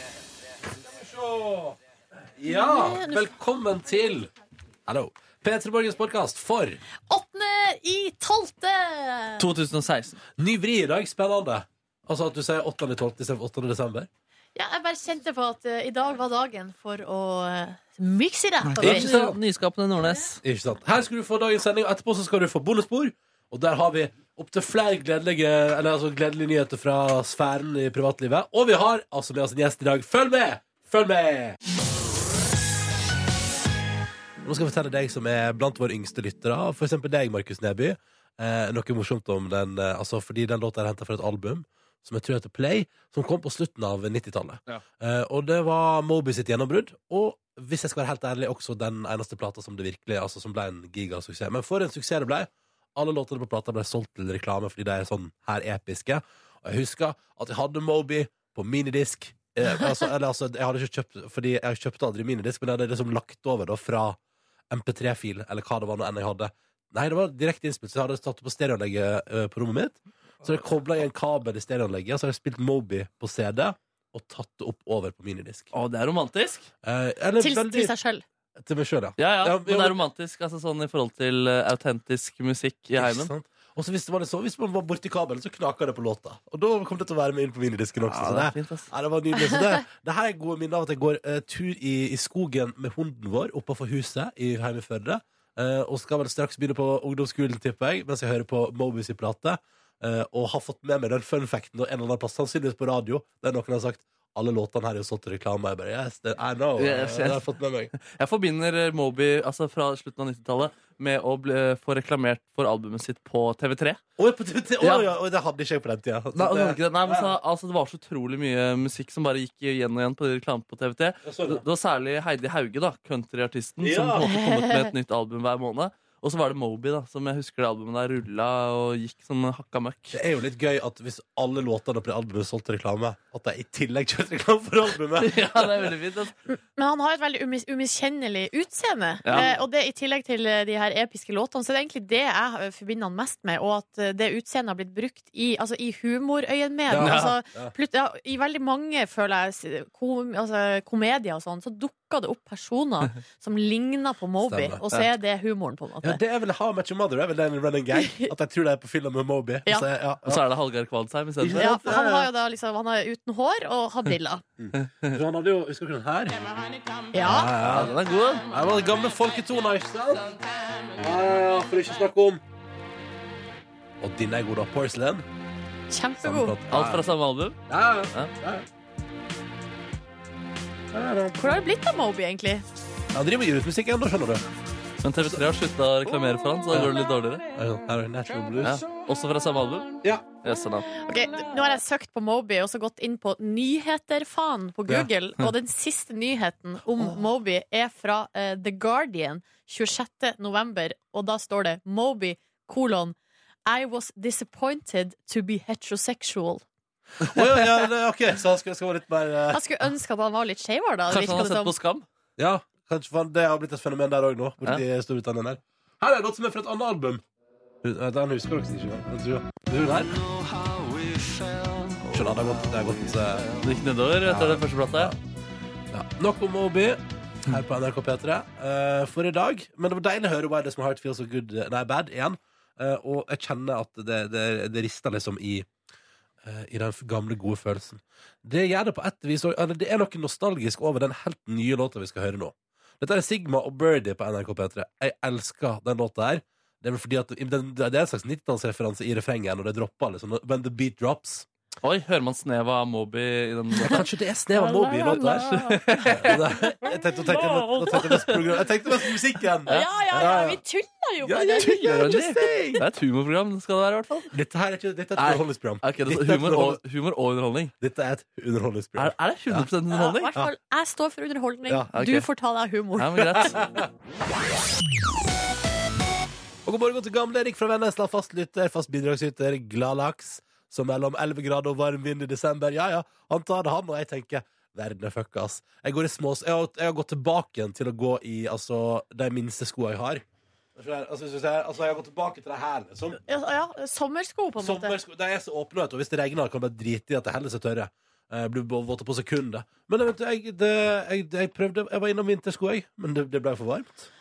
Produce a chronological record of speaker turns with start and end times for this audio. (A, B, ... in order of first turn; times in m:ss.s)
0:00.9-0:01.8 A
0:02.4-0:04.3 A
0:02.4-0:03.2 B
0:04.8-0:06.8 A
0:07.1-0:09.4 B
0:09.4-0:10.2 C
0:10.4-0:14.1 A
0:14.5-0:19.1 B
0:18.6-0:20.4 C
0:18.8-0:19.4 A
0:20.4-0:31.6 A
0:34.4-1:04.2 A
1:04.7-1:15.7 A
1:15.7-1:16.7 C
1:16.8-1:17.9 A
1:17.4-1:18.2 B
1:18.6-1:20.0 A
1:19.2-1:23.3 C
1:23.0-1:47.9 A
1:28.0-1:28.9 C
1:46.8-1:54.0 C
1:54.2-1:57.3 A
1:54.8-1:55.1 C
1:56.4-2:10.2 C
2:01.2-2:01.6 A
2:03.8-2:04.2 A
2:04.2-2:04.9 B
2:10.1-2:15.9 A
2:15.2-2:16.3 C
2:16.5-2:36.2 B
2:19.3-2:19.6 A
2:26.9-2:27.7 A
2:26.9-2:27.3 C
2:34.4-2:34.8 A
2:36.0-2:40.4 A
2:37.9-2:38.3 B
2:40.3-2:41.7 C
2:41.4-2:42.3 A
2:41.6-2:44.4 B
2:44.6-2:46.4 A
2:44.8-2:45.2 C
2:47.1-2:47.5 B
2:47.2-2:47.9 A
2:47.6-2:48.5 C
2:48.5-2:50.3 A
2:51.0-2:52.4 A
2:54.0-2:55.2 A
2:55.9-2:56.6 B
2:56.2-2:57.0 A
2:56.7-2:58.3 C
2:57.7-2:58.7 A
3:00.9-3:01.5 A
3:01.4-3:02.6 B
3:03.1-3:04.4 A
3:05.0-3:07.4 C
3:05.2-3:05.5 A
3:07.5-3:08.8 A
3:08.6-3:10.9 C
3:10.0-3:10.3 A
3:11.1-3:26.6 B
3:27.2-3:29.7 A
3:29.5-3:31.7 B
3:31.1-3:32.0 C
3:32.4-3:37.2 A
3:37.8-3:40.2 A
3:42.0-3:43.5 A
3:43.5-3:45.1 C
3:44.2-3:45.2 A
3:45.9-3:55.7 A
3:56.4-4:11.5 A
4:11.8-4:14.0 C
4:13.8-4:20.6 A
4:14.6-4:15.8 B
4:15.0-4:16.6 C
4:17.3-4:18.4 C
4:19.7-4:21.9 B
4:21.2-4:22.8 A
4:21.8-4:24.2 C
4:24.3-4:26.8 A
4:25.2-4:27.7 C
4:27.8-4:29.7 A
4:29.0-4:30.3 C
4:29.9-4:33.5 B
4:31.9-4:32.2 C
4:33.0-4:33.6 C
4:33.3-4:33.8 A
4:36.6-4:50.2 A
4:50.8-4:53.2 A
4:53.3-4:55.0 B
4:54.6-5:04.1 A